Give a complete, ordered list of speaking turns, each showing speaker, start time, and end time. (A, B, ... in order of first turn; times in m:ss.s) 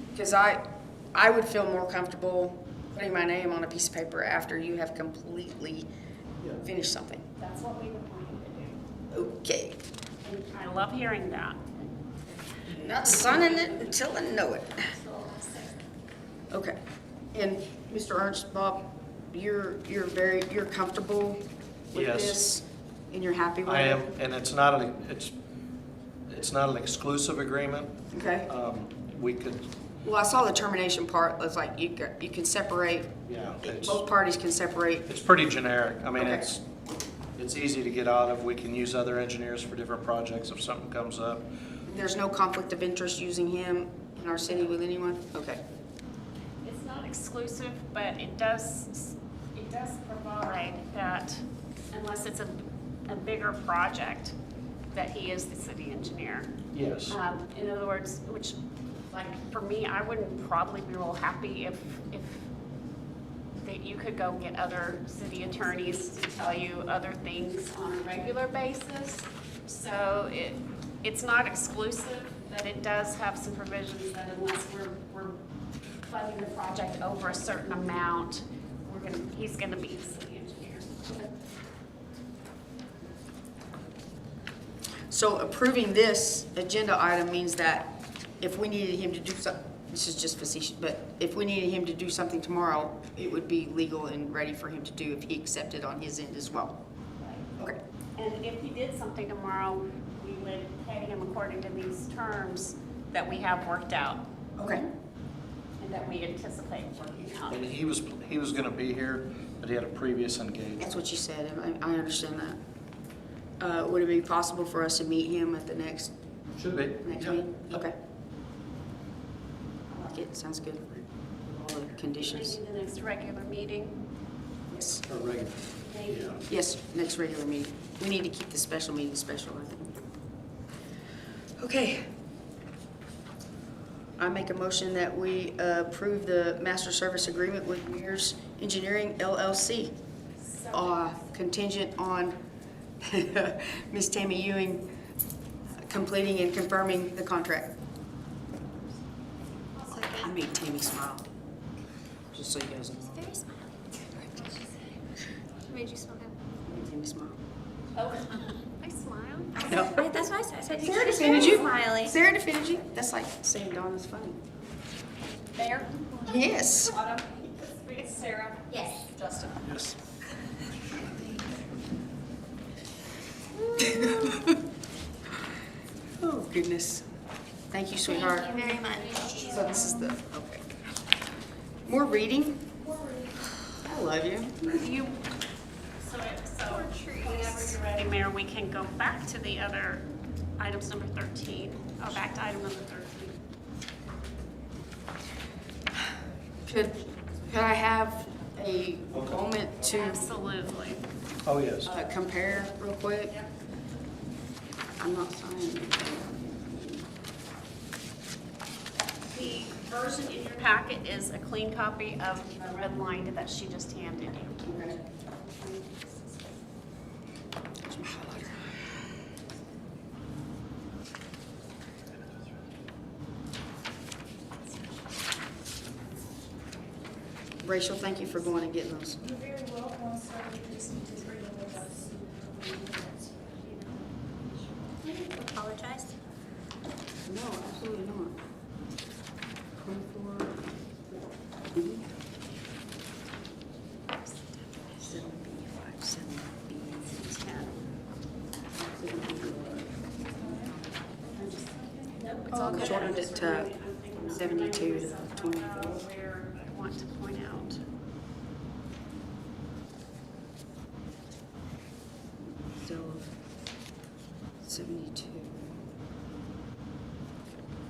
0:00.1-0:05.9 A
0:06.5-0:07.2 A
0:07.4-0:08.8 B
0:09.1-0:09.8 A
0:10.2-0:11.9 B
0:12.7-0:14.9 A
0:12.7-0:14.0 B
0:14.9-0:15.7 B
0:16.5-0:16.8 A
0:17.3-0:24.1 A
0:21.9-0:22.4 C
0:23.6-0:25.3 C
0:26.3-0:27.9 C
0:28.1-0:28.5 A
0:28.5-0:29.7 C
0:30.0-0:35.1 A
0:33.3-0:34.0 C
0:35.1-0:36.6 C
0:36.2-0:36.5 A
0:37.4-0:41.5 C
0:41.9-0:45.6 A
0:46.6-0:54.3 B
0:54.9-0:56.5 B
0:56.7-0:57.2 C
0:57.1-0:58.6 B
0:59.1-1:02.5 B
1:03.6-1:15.4 B
1:16.0-1:21.1 B
1:25.1-1:36.8 A
1:37.2-1:44.2 B
1:44.6-1:44.8 A
1:45.8-1:47.6 B
1:47.5-1:50.9 C
1:50.8-1:52.6 A
1:53.6-1:56.1 A
1:56.6-1:57.8 C
1:57.0-1:57.9 A
2:00.0-2:00.8 A
2:01.5-2:02.6 A
2:02.2-2:04.0 B
2:04.7-2:05.0 A
2:05.1-2:06.4 C
2:05.8-2:06.4 B
2:06.4-2:10.0 A
2:11.6-2:12.1 A
2:14.2-2:19.9 A
2:20.4-2:21.2 B
2:20.7-2:22.4 A
2:23.0-2:24.9 A
2:25.8-2:27.7 A
2:29.7-2:30.2 B
2:30.0-2:31.2 A
2:32.3-2:33.3 A
2:33.1-2:33.7 D
2:35.7-2:36.3 D
2:36.6-2:37.4 A
2:37.9-2:39.7 B
2:39.6-2:40.1 A
2:39.7-2:42.1 D
2:40.7-2:44.4 A
2:45.5-2:46.2 B
2:46.2-2:47.1 A
2:46.9-2:49.5 B
2:48.7-2:49.1 D
2:49.6-2:50.0 C
2:53.6-2:54.6 A
2:53.8-2:54.4 D
2:56.2-2:57.0 A
2:57.7-3:00.7 A
2:58.1-2:59.7 D
3:01.8-3:02.7 A
3:03.8-3:04.9 A
3:04.7-3:05.3 B
3:06.0-3:10.1 B
3:06.7-3:07.3 D
3:10.6-3:13.4 B
3:16.7-3:20.2 A
3:19.1-3:19.4 C
3:19.8-3:21.0 B
3:21.4-3:21.9 C
3:21.8-3:23.3 A
3:25.0-3:27.0 A
3:29.3-3:36.5 B
3:34.6-3:35.0 A
3:37.8-3:38.8 A
3:47.6-3:49.2 A
3:49.2-3:54.0 E
3:51.1-3:51.8 B
3:55.0-3:56.1 D
3:57.2-3:58.3 A
3:59.8-4:00.6 A
4:01.7-4:02.0 A
4:05.0-4:07.2 A
4:07.1-4:07.8 B
4:08.9-4:10.8 A
4:11.3-4:17.8 B
4:12.5-4:16.0 A
4:22.8-4:23.3 A
4:24.6-4:25.7 A